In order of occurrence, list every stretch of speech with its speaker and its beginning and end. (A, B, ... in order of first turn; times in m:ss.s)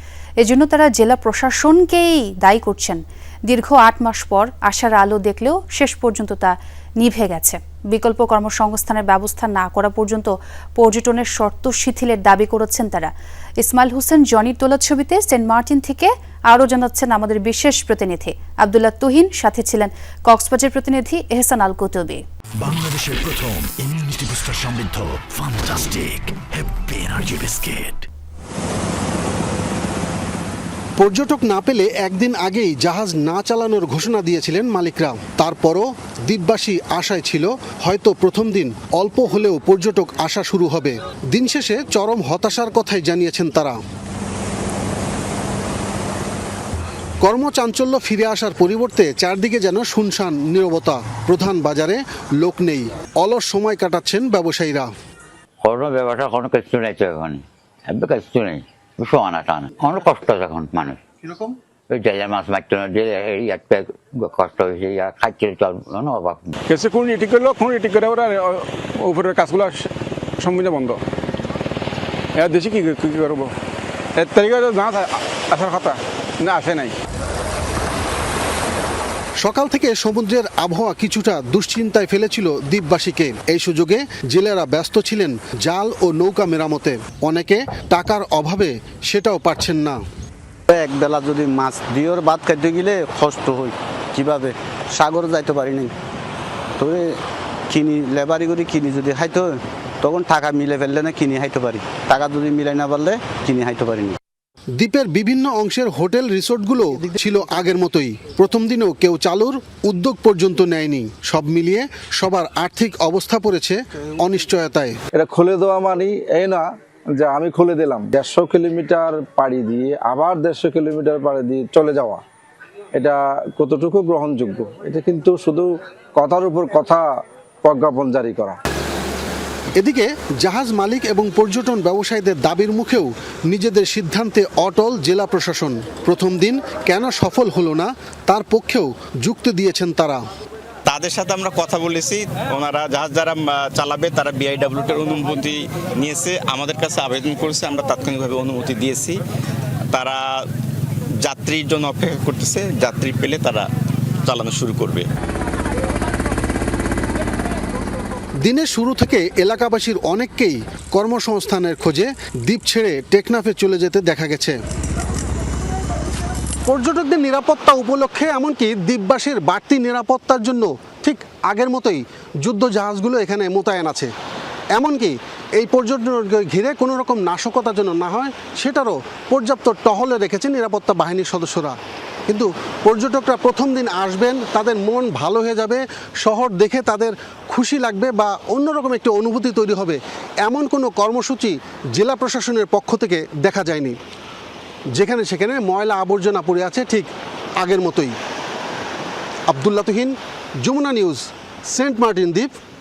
0:00.4-0:22.2 A
0:22.6-0:28.0 B
0:31.0-0:43.8 C
0:47.2-0:54.9 C
0:55.6-1:01.0 D
1:01.2-1:01.5 C
1:01.9-1:06.5 D
1:06.7-1:09.9 E
1:10.4-1:11.0 E
1:12.4-1:13.5 E
1:14.2-1:17.0 E
1:19.4-1:30.0 C
1:30.7-1:35.9 F
1:36.8-1:37.2 F
1:37.7-1:44.2 F
1:44.8-1:54.9 C
1:55.2-1:56.6 G
1:57.2-2:02.2 G
2:03.0-2:07.1 G
2:07.6-2:08.6 G
2:09.8-2:20.2 C
2:20.9-2:29.2 H
2:29.9-2:30.4 H
2:31.2-2:33.7 H
2:34.3-2:35.1 H
2:38.4-2:44.6 C
2:46.7-2:54.1 C
2:54.8-3:01.8 C
3:02.3-3:14.0 C
3:14.9-3:18.2 C
3:19.5-3:22.5 C